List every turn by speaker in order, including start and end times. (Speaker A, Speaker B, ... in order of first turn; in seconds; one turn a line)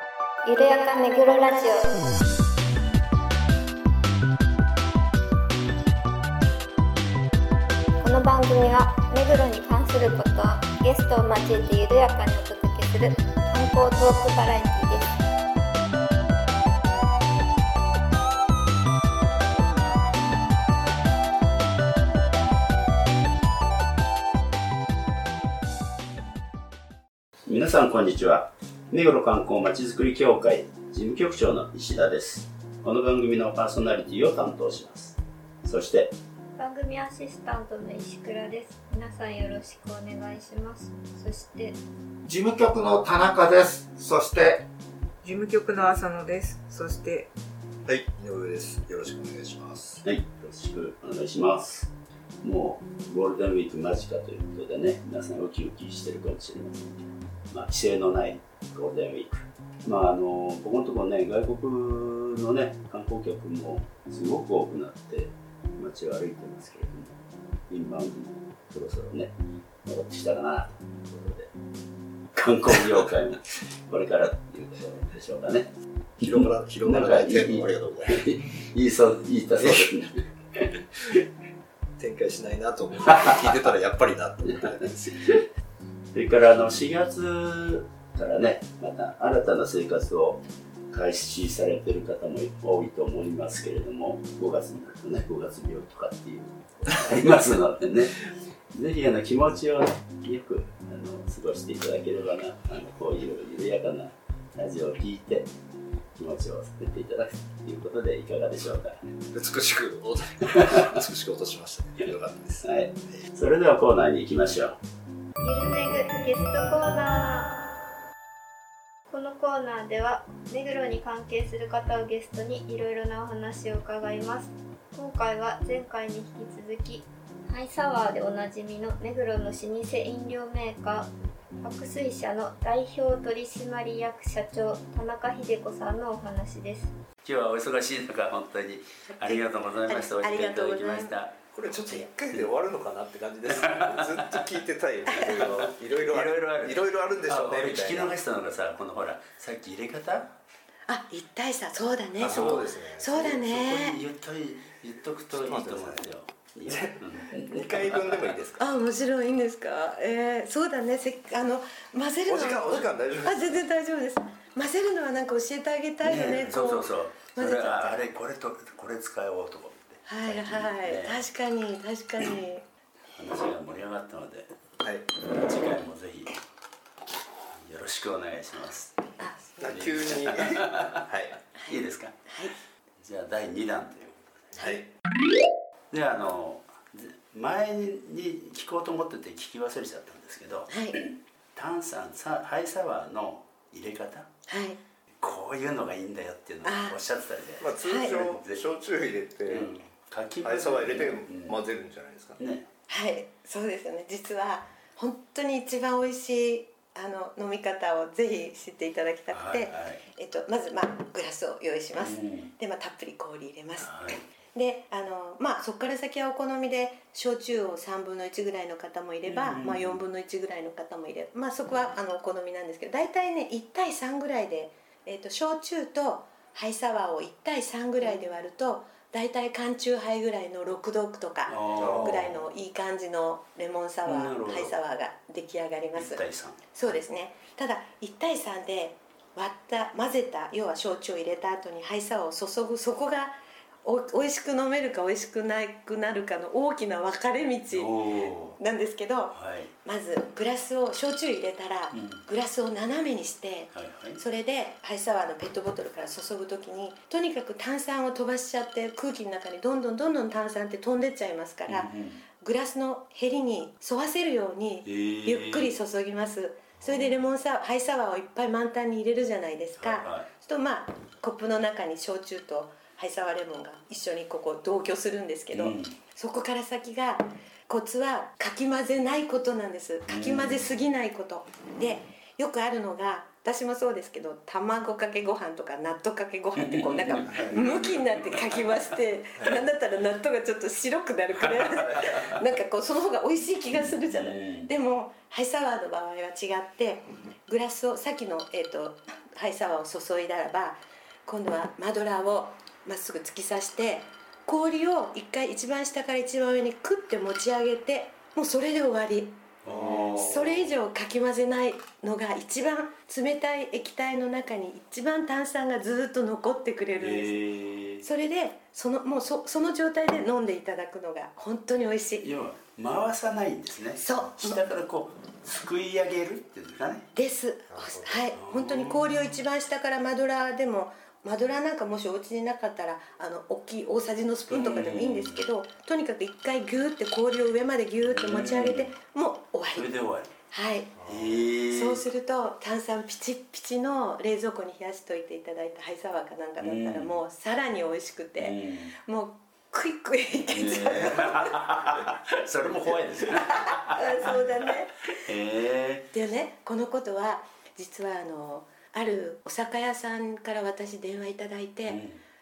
Speaker A: 0.5-2.1
Speaker A: 8.0-15.1
Speaker B: 27.5-36.1
Speaker A: 36.6-41.8
Speaker C: 42.3-44.7
Speaker D: 45.2-47.3
Speaker E: 47.9-50.0
Speaker B: 50.0-51.9
Speaker B: 52.4-67.2
Speaker B: 67.7-69.3
Speaker B: 69.9-71.5
Speaker B: 72.4-75.7
Speaker E: 76.2-78.2
Speaker B: 76.2-81.2
Speaker E: 79.5-79.9
Speaker E: 82.0-85.2
Speaker B: 84.5-85.4
Speaker B: 86.1-105.5
Speaker B: 106.2-109.0
Speaker E: 109.3-113.2
Speaker B: 110.5-110.8
Speaker B: 112.6-114.8
Speaker A: 115.4-117.5
Speaker A: 119.1-136.9
Speaker B: 137.2-141.4
Speaker F: 139.1-141.2
Speaker E: 141.5-148.2
Speaker B: 143.6-144.5
Speaker B: 145.2-150.3
Speaker F: 150.9-154.0
Speaker E: 152.2-153.4
Speaker B: 152.3-152.6
Speaker B: 153.2-158.2
Speaker E: 155.3-156.1
Speaker E: 156.7-158.6
Speaker F: 158.6-168.1
Speaker E: 162.3-163.6
Speaker B: 166.0-171.2
Speaker F: 170.1-172.6
Speaker B: 173.1-174.5
Speaker E: 174.8-175.1
Speaker B: 175.4-176.4
Speaker B: 177.5-181.0
Speaker F: 179.2-179.8
Speaker E: 179.6-181.4
Speaker B: 181.7-182.3
Speaker F: 182.3-182.5
Speaker B: 183.0-184.5
Speaker E: 184.6-184.9
Speaker B: 185.9-194.3
Speaker F: 190.7-191.0
Speaker F: 194.5-194.8
Speaker B: 195.2-198.6
Speaker F: 196.6-197.0
Speaker E: 197.6-199.7
Speaker F: 197.8-198.2
Speaker B: 199.5-201.6
Speaker E: 200.4-202.4
Speaker B: 202.4-202.7
Speaker F: 202.9-236.2
Speaker B: 209.3-210.0
Speaker B: 212.0-212.5
Speaker B: 213.8-214.2
Speaker B: 219.2-220.0
Speaker B: 231.5-232.4
Speaker E: 231.8-232.2
Speaker B: 234.1-234.7
Speaker B: 236.0-236.8
Speaker F: 236.7-317.4
Speaker B: 247.7-248.6
Speaker B: 249.3-249.7
Speaker B: 251.9-252.2
Speaker B: 253.7-254.2
Speaker B: 261.7-262.2
Speaker B: 264.9-265.7
Speaker E: 266.8-267.0
Speaker B: 269.8-270.3
Speaker B: 275.5-275.9
Speaker B: 280.1-280.6
Speaker B: 286.6-288.6
Speaker B: 291.4-292.3
Speaker B: 293.8-294.7
Speaker B: 309.6-310.7
Speaker B: 317.0-318.0
Speaker F: 318.0-322.3
Speaker B: 322.2-327.1
Speaker F: 324.0-324.6
Speaker F: 327.1-339.9
Speaker E: 327.7-328.3
Speaker B: 328.4-329.3
Speaker B: 334.5-335.4
Speaker B: 338.1-338.9
Speaker B: 339.8-340.3
Speaker F: 340.5-340.9
Speaker E: 341.0-341.5
Speaker B: 341.1-342.0
Speaker F: 341.7-351.6
Speaker B: 346.6-347.1
Speaker B: 348.4-348.9
Speaker B: 350.5-354.4
Speaker F: 353.4-355.2
Speaker B: 355.2-356.1
Speaker F: 356.1-362.0
Speaker B: 361.9-362.2